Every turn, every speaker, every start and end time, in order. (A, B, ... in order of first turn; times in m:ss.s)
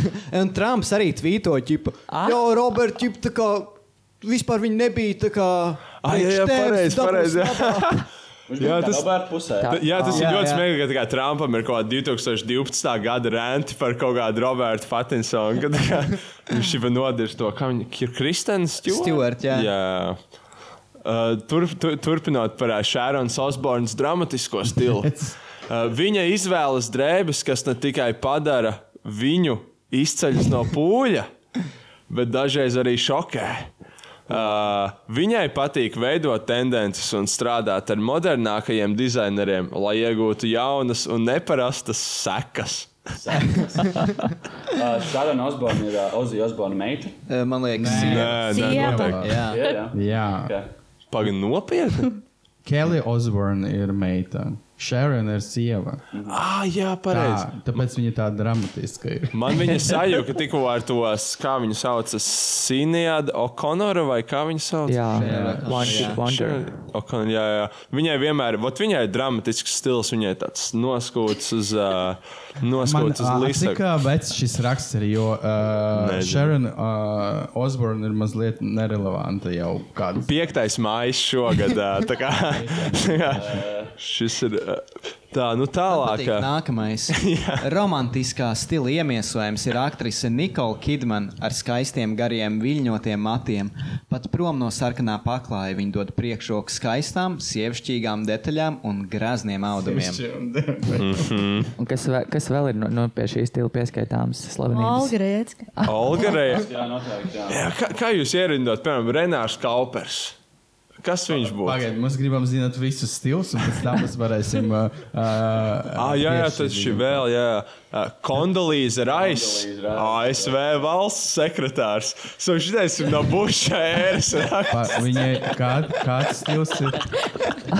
0:00.3-0:08.0 A
0:02.1-0:02.4 B
0:06.0-0:08.0 C
0:08.5-0:10.1 D
0:08.6-0:09.1 C
0:09.6-0:10.3 B
0:09.7-0:20.2 C
0:10.1-0:10.7 A
0:18.8-0:19.7 A
0:21.0-0:31.3 C
0:32.1-0:33.7 C
0:34.3-0:42.9 C
0:43.1-0:44.1 D
0:44.7-0:47.1 D
0:47.3-0:48.5 A
0:47.7-0:50.5 E
0:47.9-0:49.2 C
0:48.5-0:49.7 F
0:49.2-0:49.6 A
0:49.5-0:50.7 D
0:51.1-0:52.2 C
0:52.6-0:56.0 E
0:56.1-0:56.4 D
0:56.3-0:57.8 C
0:57.1-0:59.9 E
0:59.3-1:05.2 C
1:04.8-1:06.6 B
1:05.1-1:06.2 A
1:05.2-1:05.9 E
1:05.7-1:13.8 C
1:12.8-1:20.3 E
1:15.9-1:16.5 C
1:20.3-1:23.4 C
1:22.5-1:23.6 E
1:23.3-1:23.9 D
1:24.0-1:26.5 C
1:25.9-1:40.2 A
1:27.1-1:27.6 C
1:39.7-1:41.4 E
1:41.0-1:41.7 C
1:41.8-1:45.1 B
1:44.7-1:45.9 F
1:45.8-1:46.7 C
1:46.6-1:47.7 D
1:47.5-1:50.4 C
1:51.0-1:51.8 C
1:51.6-1:57.2 E
1:56.0-2:05.0 C
1:59.1-2:00.5 D
2:04.7-2:07.0 E